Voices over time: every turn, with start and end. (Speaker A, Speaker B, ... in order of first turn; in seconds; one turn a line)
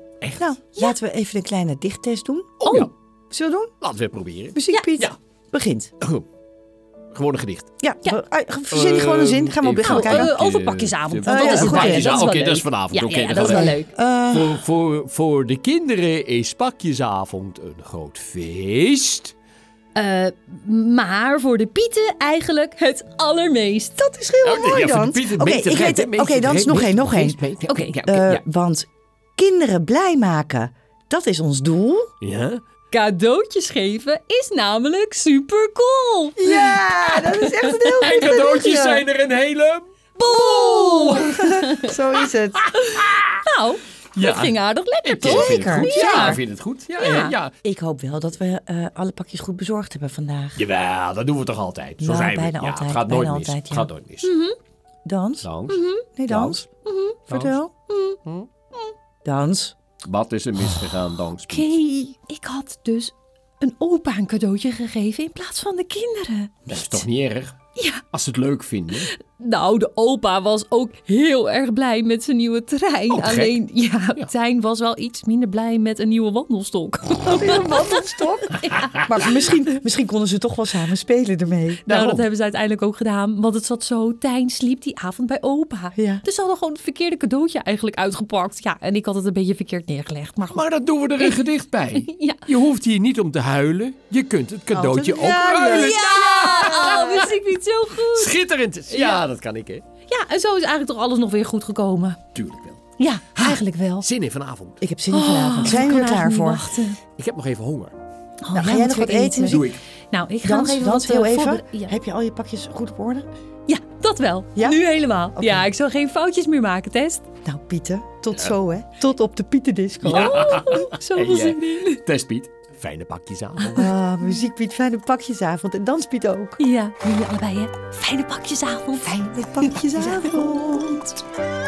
Speaker A: 0.2-0.5
Speaker B: 0.4-3.7
Speaker A: 2.6-2.9
Speaker C: 2.6-2.9
Speaker A: 3.8-5.2
Speaker B: 4.5-5.9
Speaker A: 7.1-7.7
Speaker B: 7.8-10.3
Speaker A: 8.7-19.3
Speaker C: 9.8-13.9
Speaker B: 11.2-12.3
Speaker B: 13.4-14.6
Speaker C: 19.9-24.0
Speaker B: 24.0-32.1
Speaker A: 24.4-28.4
Speaker C: 27.7-28.0
Speaker A: 32.2-32.6
Speaker C: 32.9-38.3
Speaker B: 36.4-39.1
Speaker A: 38.0-41.7
Speaker C: 40.2-41.9
Speaker B: 41.4-42.7
Speaker C: 42.8-46.4
Speaker A: 44.2-47.5
Speaker B: 45.2-46.4
Speaker C: 47.0-47.3
Speaker B: 47.6-50.6
Speaker A: 50.6-54.3
Speaker B: 52.0-53.9
Speaker C: 54.2-54.5
Speaker B: 55.0-55.5
Speaker A: 55.4-56.6
Speaker C: 55.7-56.1
Speaker B: 56.1-56.6
Speaker C: 56.9-57.2
Speaker B: 57.3-57.7
Speaker A: 57.3-57.6
Speaker C: 57.9-58.2
Speaker B: 59.2-59.8
Speaker A: 60.0-61.7
Speaker C: 61.5-67.0
Speaker A: 66.7-67.6
Speaker C: 67.8-68.0
Speaker A: 68.1-69.1
Speaker C: 69.2-78.1
Speaker A: 73.1-73.6
Speaker B: 77.2-82.2
Speaker C: 78.6-78.9
Speaker C: 81.8-90.6
Speaker A: 81.9-82.2
Speaker B: 86.0-86.2
Speaker A: 90.5-97.3
Speaker C: 92.0-92.5
Speaker B: 94.7-96.0
Speaker C: 95.5-98.3
Speaker A: 98.0-99.8
Speaker C: 98.9-99.2
Speaker C: 100.1-102.2
Speaker A: 102.3-102.8
Speaker C: 103.0-104.1
Speaker A: 103.3-104.8
Speaker B: 104.8-106.7
Speaker C: 105.1-107.0
Speaker A: 107.2-108.0
Speaker C: 108.4-111.9
Speaker B: 108.5-109.8
Speaker A: 109.5-109.8
Speaker B: 110.4-113.3
Speaker C: 113.7-117.3
Speaker B: 114.5-114.8
Speaker B: 115.3-115.7
Speaker B: 117.4-120.7
Speaker A: 120.0-123.9
Speaker C: 120.1-122.0
Speaker B: 123.8-126.6
Speaker C: 126.6-130.6
Speaker B: 129.0-131.1